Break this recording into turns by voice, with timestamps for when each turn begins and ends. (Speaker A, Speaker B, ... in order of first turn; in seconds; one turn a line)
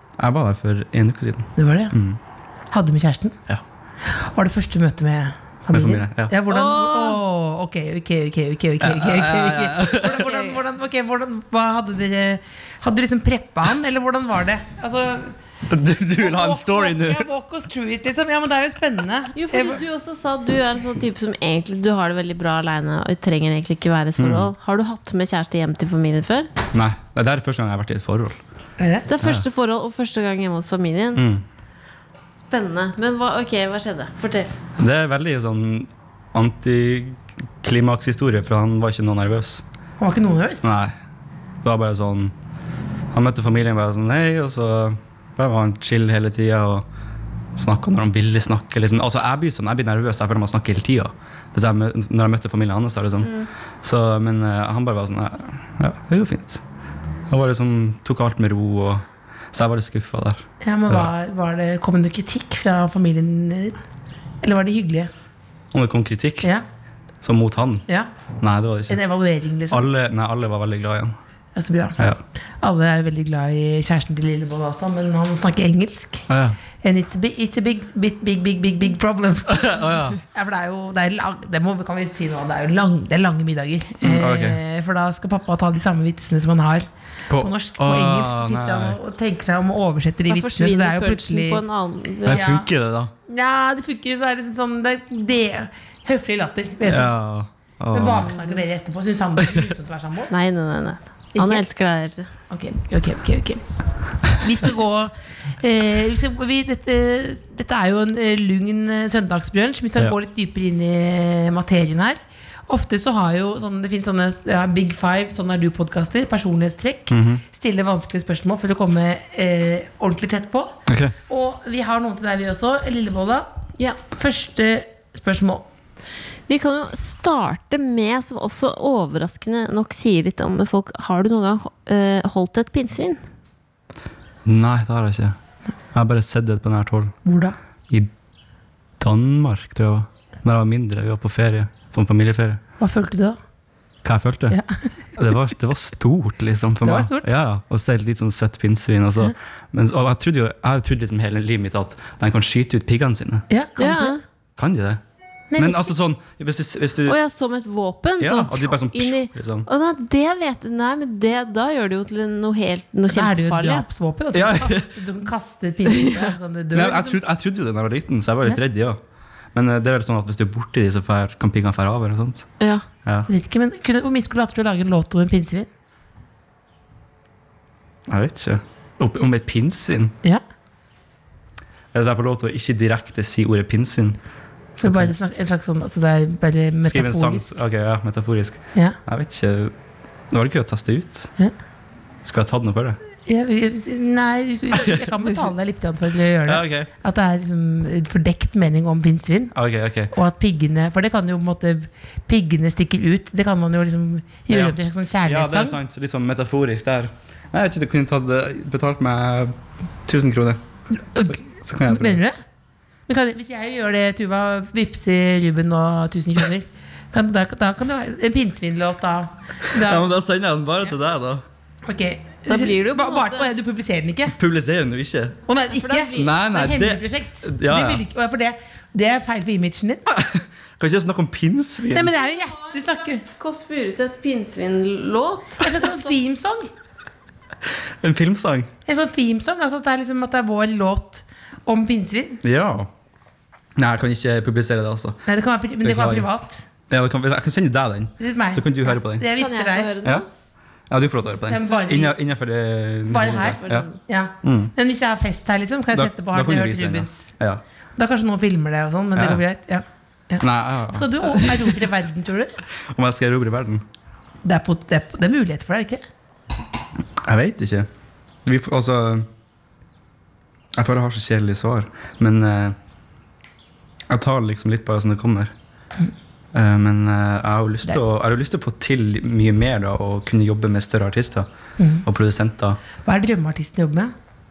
Speaker A: 0.2-2.2
Speaker B: 1.6-1.9
Speaker B: 2.7-3.4
Speaker B: 4.0-15.3
Speaker A: 5.7-6.3
Speaker C: 6.5-7.2
Speaker A: 8.8-10.3
Speaker C: 10.2-10.6
Speaker A: 15.7-17.3
Speaker B: 16.2-19.8
Speaker C: 19.3-26.5
Speaker A: 24.2-24.5
Speaker A: 26.7-28.4
Speaker B: 28.8-29.1
Speaker C: 29.1-31.2
Speaker A: 29.2-29.4
Speaker A: 31.1-31.4
Speaker C: 32.4-34.5
Speaker A: 34.8-39.6
Speaker B: 40.0-40.7
Speaker A: 40.6-40.9
Speaker A: 41.6-42.3
Speaker A: 43.1-46.9
Speaker A: 47.5-56.6
Speaker C: 53.2-53.5
Speaker A: 57.3-61.1
Speaker B: 60.6-63.8
Speaker B: 64.4-65.1
Speaker A: 65.7-66.5
Speaker A: 67.2-67.8
Speaker A: 68.4-69.0
Speaker B: 68.9-69.8
Speaker A: 69.7-71.2
Speaker B: 71.5-72.0
Speaker B: 72.6-76.2
Speaker A: 76.3-76.6
Speaker B: 76.8-91.6
Speaker A: 79.5-80.2
Speaker A: 84.0-84.6
Speaker A: 87.3-89.0
Speaker C: 90.3-92.5
Speaker A: 92.2-93.1
Speaker B: 92.3-92.7
Speaker B: 93.3-97.1
Speaker A: 96.8-98.4
Speaker B: 97.9-100.3
Speaker C: 100.3-102.3
Speaker B: 101.3-101.6
Speaker B: 102.5-103.6
Speaker B: 104.2-120.8
Speaker A: 117.1-117.4
Speaker A: 120.9-121.1
Speaker B: 121.3-123.5
Speaker B: 124.1-125.7
Speaker C: 126.5-133.2
Speaker A: 134.4-135.4
Speaker A: 135.9-137.2
Speaker B: 137.2-137.6
Speaker A: 139.0-142.6
Speaker B: 142.8-143.4
Speaker A: 144.0-144.6
Speaker A: 145.2-153.4
Speaker B: 146.8-147.3
Speaker B: 153.5-154.2
Speaker C: 153.8-154.2
Speaker A: 154.6-155.0
Speaker B: 155.5-155.9
Speaker A: 155.6-157.2
Speaker C: 157.1-163.8
Speaker A: 158.2-159.7
Speaker B: 163.1-167.2
Speaker A: 164.3-164.9
Speaker A: 166.7-169.0
Speaker A: 169.5-172.5
Speaker C: 172.6-172.8
Speaker B: 173.3-175.7
Speaker A: 178.1-180.1
Speaker A: 181.9-184.2
Speaker A: 184.8-185.1
Speaker B: 184.8-187.5
Speaker A: 186.8-189.7
Speaker A: 190.3-191.3
Speaker A: 192.2-193.0
Speaker B: 193.2-199.5
Speaker A: 194.8-195.1
Speaker A: 196.4-196.9
Speaker A: 199.5-200.1
Speaker B: 200.1-205.8
Speaker A: 204.5-209.5
Speaker A: 210.0-210.6
Speaker B: 211.1-212.3
Speaker A: 211.2-212.2
Speaker B: 213.1-220.1
Speaker A: 219.7-221.4
Speaker B: 221.8-224.3
Speaker C: 222.5-223.5
Speaker A: 224.3-225.4
Speaker B: 225.5-230.1
Speaker C: 225.7-226.3
Speaker A: 226.1-228.0
Speaker A: 230.1-232.1
Speaker B: 231.9-233.2
Speaker C: 232.2-236.0
Speaker B: 235.6-236.7
Speaker A: 238.0-238.7
Speaker B: 238.8-242.4
Speaker A: 242.4-242.9
Speaker A: 243.8-245.2
Speaker B: 245.3-246.6
Speaker A: 245.8-246.3
Speaker A: 246.9-249.3
Speaker B: 248.2-250.0
Speaker C: 249.4-250.3
Speaker A: 250.9-253.9
Speaker B: 251.5-252.1
Speaker B: 253.1-257.3
Speaker C: 253.5-254.0
Speaker A: 254.4-254.7
Speaker A: 255.9-257.6
Speaker B: 257.9-262.6
Speaker A: 259.1-259.4
Speaker A: 260.4-261.8
Speaker A: 262.8-263.8
Speaker B: 264.4-266.0
Speaker A: 267.2-267.9
Speaker A: 268.4-269.3
Speaker A: 270.7-272.8
Speaker A: 274.1-275.5
Speaker A: 276.5-281.5
Speaker B: 281.8-282.0
Speaker A: 282.0-282.8
Speaker B: 283.0-284.1